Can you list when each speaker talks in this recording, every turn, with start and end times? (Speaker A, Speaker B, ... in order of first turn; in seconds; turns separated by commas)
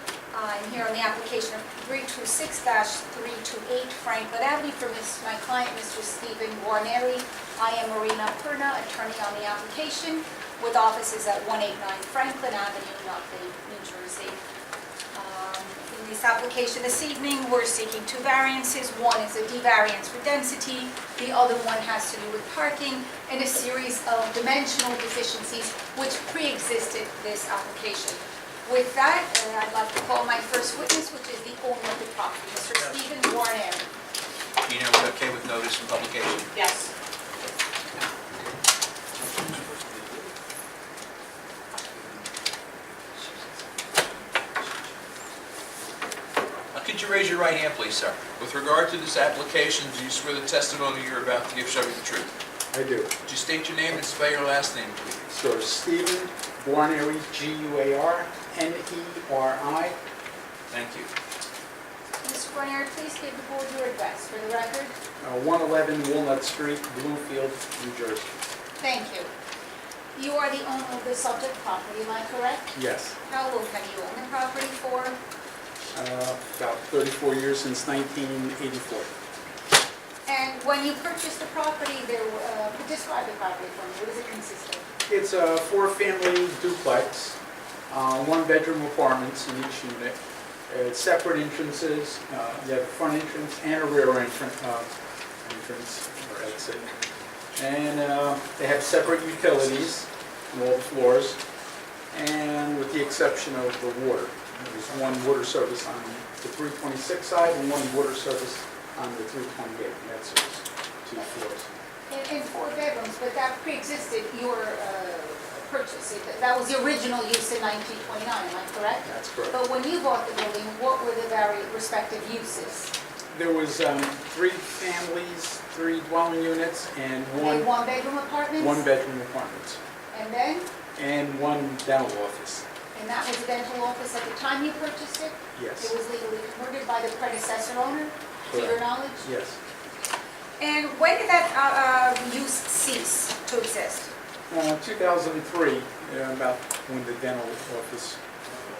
Speaker A: 0.3-14.4, Speaker A: 15.1-33.8, Speaker B: 34.6-36.5, Speaker B: 39.5-40.1, Speaker B: 41.9-42.2, Speaker B: 43.2-43.4, Speaker B: 46.7-52.3, Speaker C: 52.7-53.1, Speaker B: 53.2-55.3, Speaker C: 55.3-60.0, Speaker B: 60.7-61.1, Speaker A: 62.2-64.9, Speaker C: 65.2-68.2, Speaker A: 68.8-69.3, Speaker A: 70.1-72.7, Speaker C: 72.7-73.1, Speaker A: 73.2-75.2, Speaker C: 75.9-79.1, Speaker A: 80.2-84.8, Speaker C: 85.1-87.4, Speaker C: 87.9-90.2, Speaker C: 90.7-94.9, Speaker C: 95.4-96.9, Speaker C: 97.5-101.4, Speaker C: 102.1-111.7, Speaker A: 112.1-122.9, Speaker C: 119.0-119.5, Speaker C: 123.3-127.7, Speaker A: 127.4-128.8, Speaker C: 128.6-129.8, Speaker A: 130.1-130.7, Speaker C: 131.0-132.6, Speaker A: 132.9-139.3, Speaker C: 135.6-135.9, Speaker C: 138.5-139.6, Speaker A: 140.6-144.1, Speaker C: 144.5-148.2